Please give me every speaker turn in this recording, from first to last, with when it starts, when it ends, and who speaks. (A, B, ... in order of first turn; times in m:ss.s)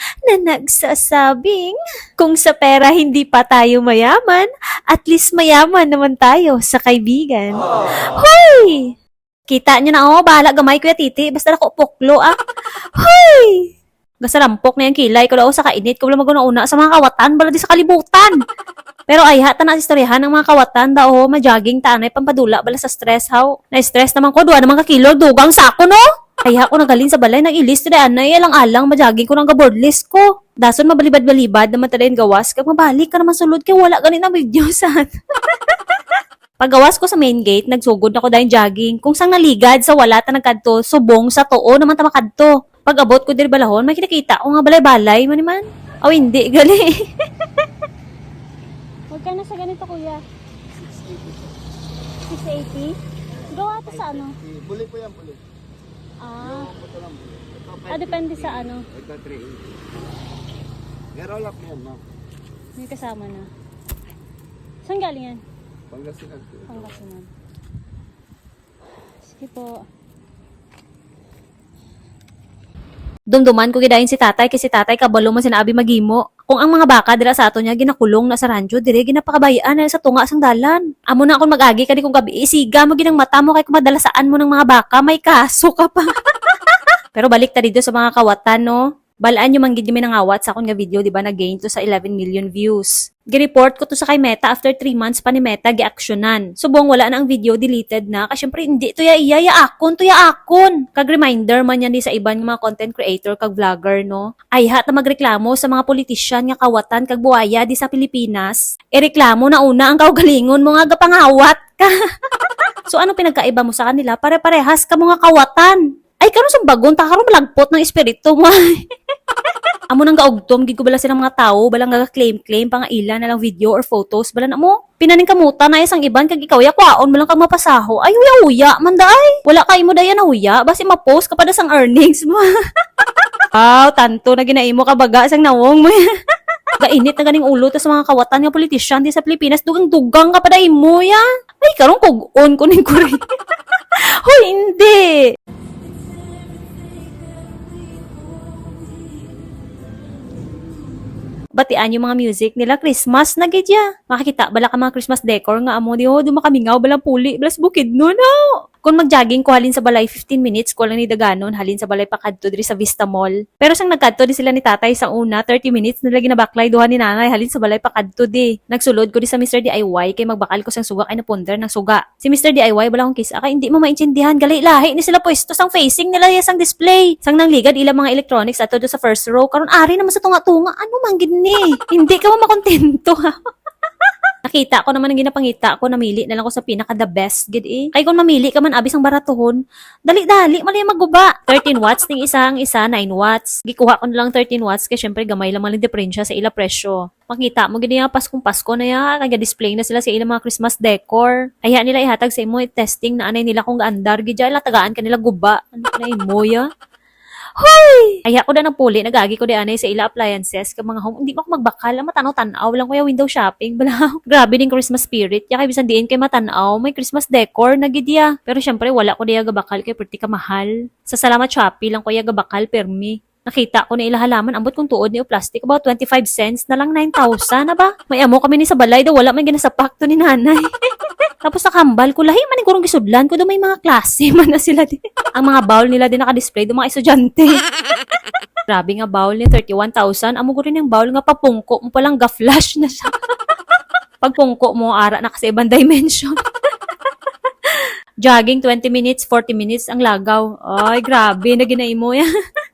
0:00.2-0:08.9 A
0:09.5-0:12.3 A
0:13.0-0:13.7 A
0:14.2-0:18.4 A
0:19.1-0:47.7 A
0:49.1-0:50.2 B
0:49.2-0:50.2 A
0:50.8-0:51.5 C
0:52.3-0:52.9 B
0:52.3-0:52.8 A
0:53.5-0:54.3 B
0:53.5-0:54.3 A
0:53.9-0:55.4 C
0:56.3-0:56.6 B
0:56.4-0:59.7 C
0:57.9-0:58.7 B
0:57.9-0:58.8 A
1:01.1-1:02.0 C
1:02.8-1:03.4 A
1:02.8-1:03.4 B
1:04.9-1:05.4 B
1:04.9-1:05.3 A
1:05.9-1:06.8 C
1:06.7-1:07.2 B
1:09.4-1:09.8 B
1:13.3-1:51.9 A
1:52.9-1:58.8 A
1:59.9-2:12.5 A
2:13.5-2:16.0 A
2:16.8-2:23.2 A
2:23.7-2:25.2 A
2:31.6-3:03.3 A
3:04.1-3:26.7 A
3:27.6-3:50.6 A
3:51.4-3:57.5 A
3:58.7-4:03.1 A
4:04.2-4:06.4 A
4:08.2-4:12.3 A